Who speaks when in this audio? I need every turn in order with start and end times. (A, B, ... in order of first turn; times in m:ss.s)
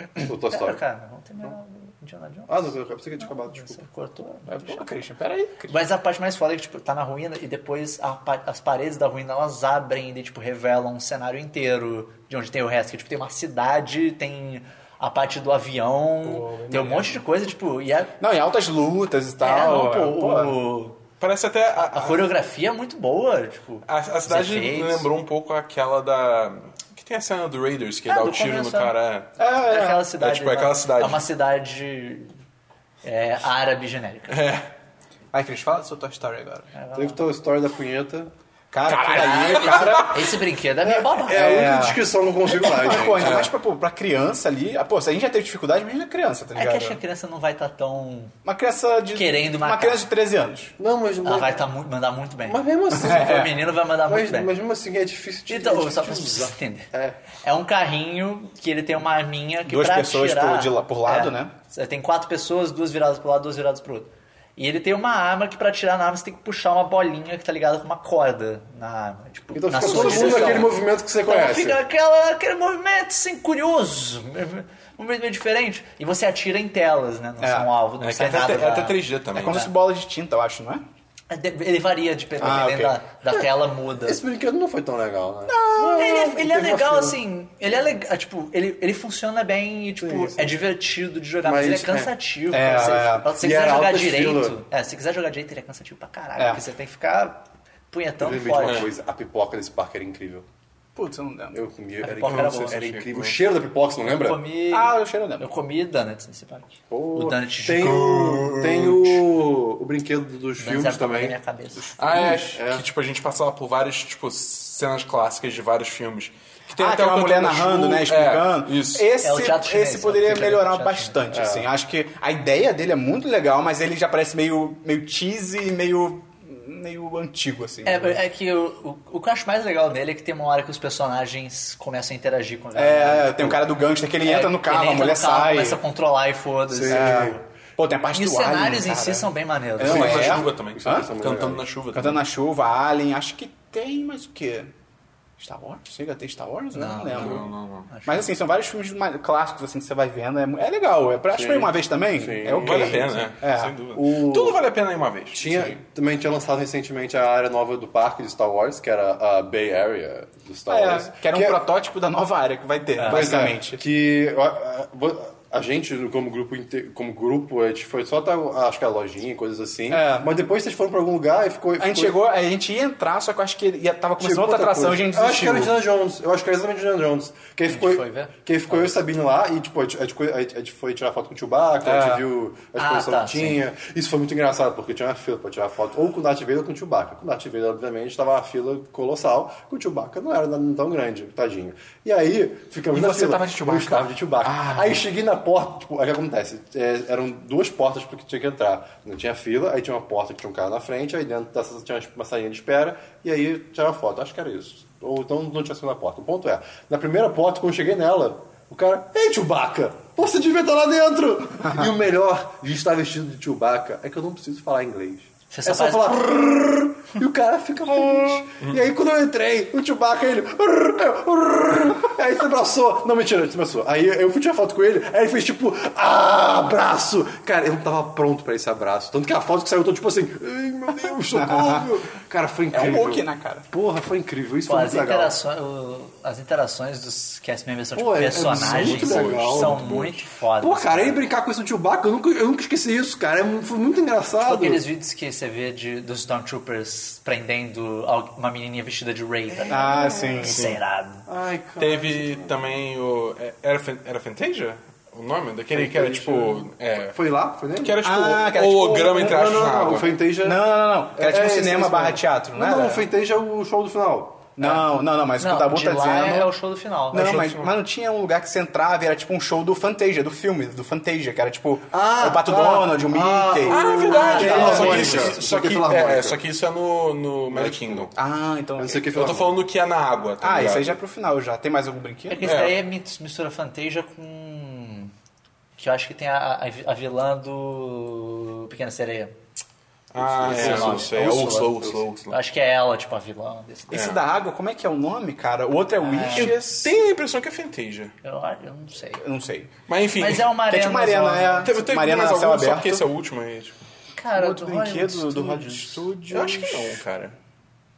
0:00.2-0:00.8 A
0:00.5-0:04.8 B
0:02.5-0:03.8 A
0:04.5-0:05.8 C
0:05.7-0:18.1 B
0:16.2-0:17.2 C
0:18.2-0:20.6 C
0:19.4-0:21.0 B
0:21.2-0:22.3 D
0:21.8-0:25.1 B
0:23.9-0:29.3 D
0:28.1-0:28.9 B
0:29.4-0:30.1 C
0:29.7-0:32.3 B
0:30.2-0:31.2 D
0:33.0-0:34.4 B
0:34.3-0:34.7 D
0:35.3-0:36.7 C
0:36.7-0:37.2 B
0:36.9-0:38.3 A
0:38.7-0:40.3 C
0:38.9-0:40.0 D
0:39.1-0:41.6 B
0:40.8-0:47.0 C
0:41.1-0:43.4 A
0:43.2-0:43.5 D
0:46.5-0:48.3 B
0:48.4-0:50.7 C
0:49.1-0:50.0 B
0:50.8-0:51.6 A
0:51.2-0:54.5 B
0:52.4-0:53.5 A
0:52.9-0:53.5 C
0:54.1-0:57.2 A
0:55.5-0:56.9 B
0:57.4-1:10.7 B
0:59.6-1:01.5 C
1:09.5-1:11.8 A
1:09.8-1:10.7 D
1:11.2-1:19.0 B
1:17.4-1:17.7 C
1:18.0-1:19.6 D
1:19.3-1:20.8 C
1:21.3-1:24.2 B
1:22.4-1:23.0 C
1:24.0-1:27.2 A
1:25.5-1:26.1 C
1:25.8-1:38.9 B
1:30.0-1:30.6 A
1:31.4-1:32.1 A
1:32.5-1:33.3 C
1:33.3-1:34.6 A
1:36.4-1:36.6 C
1:38.2-1:40.4 A
1:38.6-1:38.9 D
1:41.0-1:41.6 C
1:41.5-1:44.4 A
1:42.0-1:42.9 B
1:42.2-1:43.4 D
1:44.0-1:48.0 B
1:44.7-1:45.5 C
1:46.9-1:51.4 A
1:47.8-1:49.2 D
1:50.6-1:51.9 B
1:51.7-1:52.6 C
1:52.0-1:59.1 D
1:52.5-1:52.8 A
1:56.7-2:08.2 C
1:59.2-2:01.3 B
2:01.3-2:01.7 A
2:07.8-2:13.6 B
2:12.7-2:15.8 C
2:14.2-2:17.4 B
2:16.7-2:17.4 A
2:16.9-2:21.1 C
2:18.1-2:20.4 B
2:19.8-2:22.2 D
2:20.1-2:21.7 A
2:21.9-2:24.7 C
2:25.4-2:27.4 C
2:26.7-2:28.3 B
2:27.1-2:27.9 D
2:28.0-2:33.7 C
2:31.3-2:33.3 A
2:32.5-2:35.4 D
2:33.9-2:34.6 A
2:35.3-2:41.6 A
2:40.7-2:43.8 C
2:43.0-2:43.2 B
2:43.1-2:52.1 A
2:49.9-2:50.3 C
2:51.8-2:55.8 C
2:54.2-3:55.4 A
2:57.7-2:59.0 B
3:01.8-3:02.2 C
3:02.8-3:03.6 B
3:12.9-3:15.0 C
3:35.5-3:36.2 B
3:51.3-3:51.9 C
3:52.7-3:53.6 C
3:54.7-4:01.2 B
3:58.0-3:59.8 A
3:58.5-4:00.2 D
4:00.6-4:04.8 A
4:04.4-4:11.2 B
4:09.6-4:10.3 A
4:09.7-4:10.6 C
4:10.4-4:10.8 D
4:11.3-4:12.6 A
4:11.8-4:17.2 D
4:15.7-4:18.0 A
4:17.8-4:20.2 D
4:18.0-4:19.7 C
4:19.1-4:20.6 A
4:20.4-4:23.1 C
4:21.1-4:24.5 A
4:24.6-4:26.5 C
4:25.4-4:27.5 B
4:27.1-4:35.4 C
4:27.2-4:27.7 D
4:31.9-4:36.4 A
4:33.6-4:38.1 D
4:34.0-4:35.3 B
4:37.5-4:38.1 A
4:38.1-4:39.2 C
4:38.8-4:39.5 A
4:39.1-4:41.0 D
4:40.4-4:42.7 C
4:42.3-4:45.1 B
4:42.4-4:42.8 D
4:45.8-4:49.3 B
4:50.1-4:52.4 D
4:50.2-4:52.0 A
4:50.5-4:54.0 B
4:53.9-4:56.9 C
4:53.9-4:54.2 D
4:56.0-4:56.5 B
4:56.3-4:58.1 D
4:58.2-4:59.2 B
4:59.2-4:59.7 C
4:59.9-5:00.5 D
5:00.2-5:01.7 B
5:00.7-5:03.0 C
5:01.6-5:03.8 D
5:04.2-5:06.0 B
5:04.3-5:07.0 C
5:06.3-5:07.4 D